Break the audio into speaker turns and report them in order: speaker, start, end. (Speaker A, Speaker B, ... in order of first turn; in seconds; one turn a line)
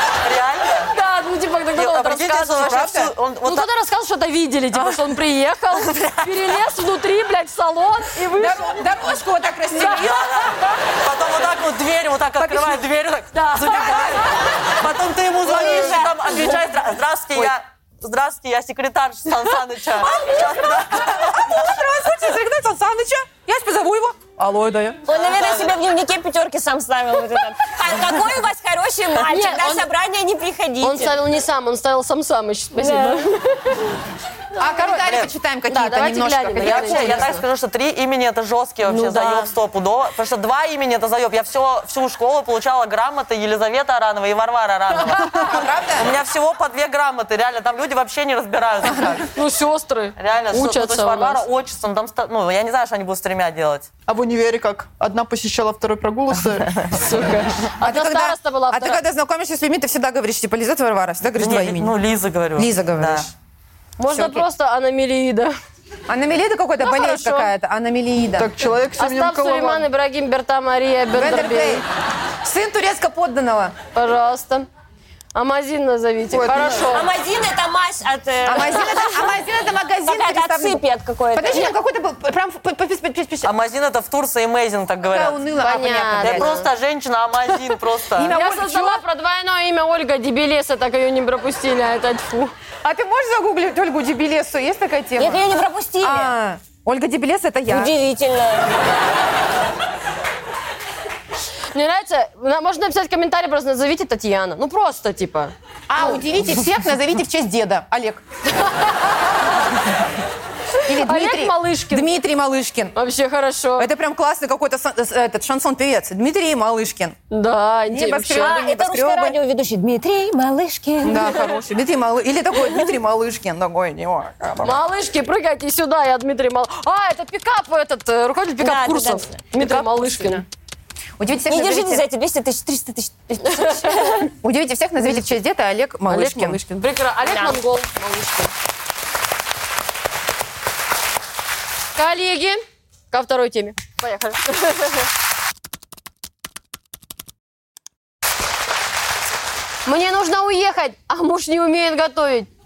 Speaker A: 0.2-0.9
Speaker B: 0.9-2.6
Speaker A: 1.7-3.7
Speaker C: 2.6-3.1
Speaker B: 3.4-8.9
Speaker A: 5.8-6.3
Speaker C: 8.3-10.5
Speaker B: 9.7-10.1
Speaker A: 9.8-21.8
Speaker C: 12.4-12.8
Speaker B: 13.3-14.3
Speaker C: 13.7-14.3
Speaker D: 15.4-16.4
Speaker C: 19.9-25.0
Speaker D: 25.1-31.2
Speaker A: 25.1-25.7
Speaker B: 29.2-29.9
Speaker B: 30.8-33.9
Speaker D: 32.7-33.3
Speaker C: 34.6-37.2
Speaker B: 34.6-35.0
Speaker A: 34.9-35.3
Speaker B: 35.7-37.4
Speaker A: 36.6-49.3
Speaker B: 38.9-39.5
Speaker B: 45.1-45.5
Speaker C: 45.3-46.1
Speaker C: 48.8-49.2
Speaker B: 49.3-51.4
Speaker A: 50.2-53.9
Speaker E: 54.1-56.8
Speaker B: 56.9-59.0
Speaker C: 57.8-61.9
Speaker A: 61.4-63.3
Speaker C: 62.6-63.3
Speaker B: 64.0-65.5
Speaker C: 64.1-64.5
Speaker C: 66.1-68.5
Speaker B: 66.8-67.5
Speaker E: 68.3-69.9
Speaker B: 69.0-71.8
Speaker C: 71.1-71.8
Speaker C: 72.4-73.7
Speaker B: 73.9-74.7
Speaker B: 75.3-77.1
Speaker E: 76.3-76.9
Speaker D: 76.9-79.4
Speaker C: 78.4-80.8
Speaker D: 80.0-81.7
Speaker C: 81.3-83.5
Speaker A: 83.4-85.4
Speaker C: 85.0-86.5
Speaker B: 85.6-86.7
Speaker A: 86.2-88.3
Speaker C: 88.1-89.0
Speaker B: 88.3-92.5
Speaker C: 92.8-95.4
Speaker D: 95.2-96.3
Speaker C: 96.0-97.9
Speaker D: 97.7-98.8
Speaker B: 101.7-106.2
Speaker C: 105.9-108.2
Speaker B: 108.8-109.1
Speaker B: 110.8-112.1
Speaker C: 110.8-112.9
Speaker B: 112.9-113.9
Speaker C: 113.8-117.2
Speaker B: 117.3-118.6
Speaker C: 117.9-119.4
Speaker D: 118.4-121.5
Speaker C: 121.0-124.8
Speaker B: 124.6-130.4
Speaker D: 128.6-129.4
Speaker C: 129.5-130.4
Speaker C: 131.2-132.0
Speaker D: 131.5-134.3
Speaker B: 133.5-134.1
Speaker C: 134.2-136.6
Speaker B: 136.1-138.5
Speaker D: 137.2-137.6
Speaker B: 141.9-145.1
Speaker B: 149.8-152.5